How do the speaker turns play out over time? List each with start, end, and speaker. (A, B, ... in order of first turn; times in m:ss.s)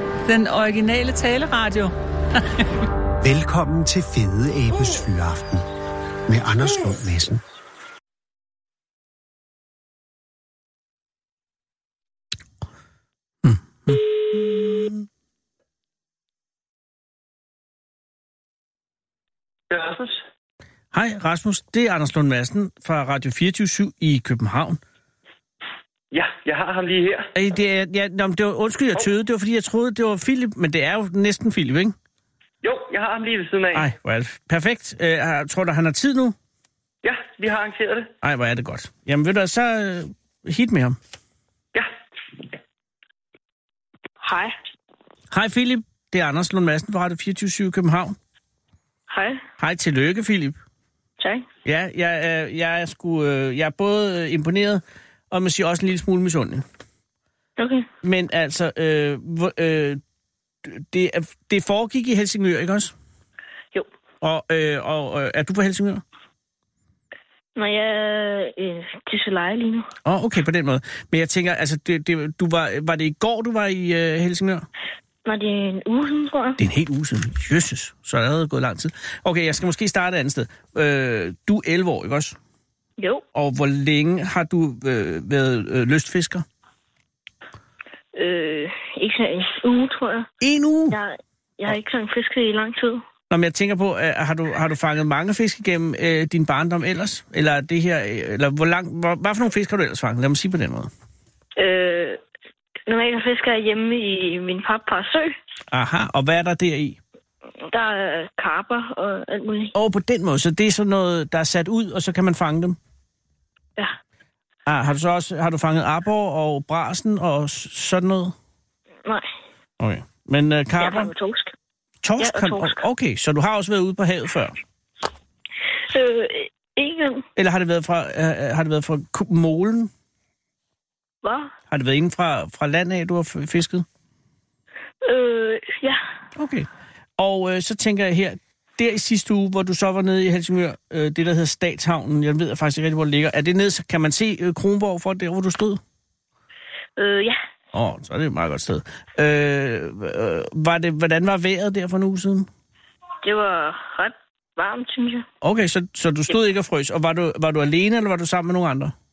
0:00.3-0:02.8 A
0:03.2-0:05.7 B
0:06.3-0:07.4 B
0:13.4-0:15.0 C
0:19.7-0:20.2 D
0:20.9-0:24.8 C
0:26.1-0:27.3 D
0:27.4-0:32.0 C
0:32.6-0:33.9 D
0:33.7-0:36.3 C
0:37.0-0:38.1 D
0:38.2-0:41.0 C
0:44.2-0:44.6 E
0:45.3-0:48.2 C
0:49.1-0:49.4 E
0:49.6-0:50.6 C
0:51.2-0:51.5 E
0:51.6-0:56.6 C
0:57.6-0:57.9 E
0:58.0-1:00.0 C
1:00.6-1:02.9 C
1:04.2-1:06.0 C
1:07.6-1:09.9 E
1:10.0-1:14.7 C
1:15.2-1:16.6 E
1:16.6-1:22.4 C
1:23.0-1:23.2 E
1:23.3-1:26.4 C
1:28.1-1:30.3 E
1:30.4-1:31.0 C
1:30.9-1:33.0 E
1:33.3-1:40.9 C
1:41.6-1:42.2 E
1:42.8-1:45.3 E
1:45.7-1:47.0 C
1:47.6-1:49.7 E
1:49.8-1:52.8 C
1:54.7-1:58.3 C
1:59.0-1:59.4 E
1:59.8-2:01.1 C
2:00.8-2:01.5 E
2:02.0-2:04.6 C
2:02.2-2:02.8 E
2:05.7-2:07.3 E
2:07.4-2:09.9 C
2:11.2-2:11.5 E
2:11.7-2:13.8 C
2:15.0-2:16.0 E
2:16.4-2:16.7 C
2:17.2-2:25.8 C
2:27.0-2:27.4 E
2:27.7-2:32.5 C
2:33.2-2:35.3 E
2:35.4-2:38.9 C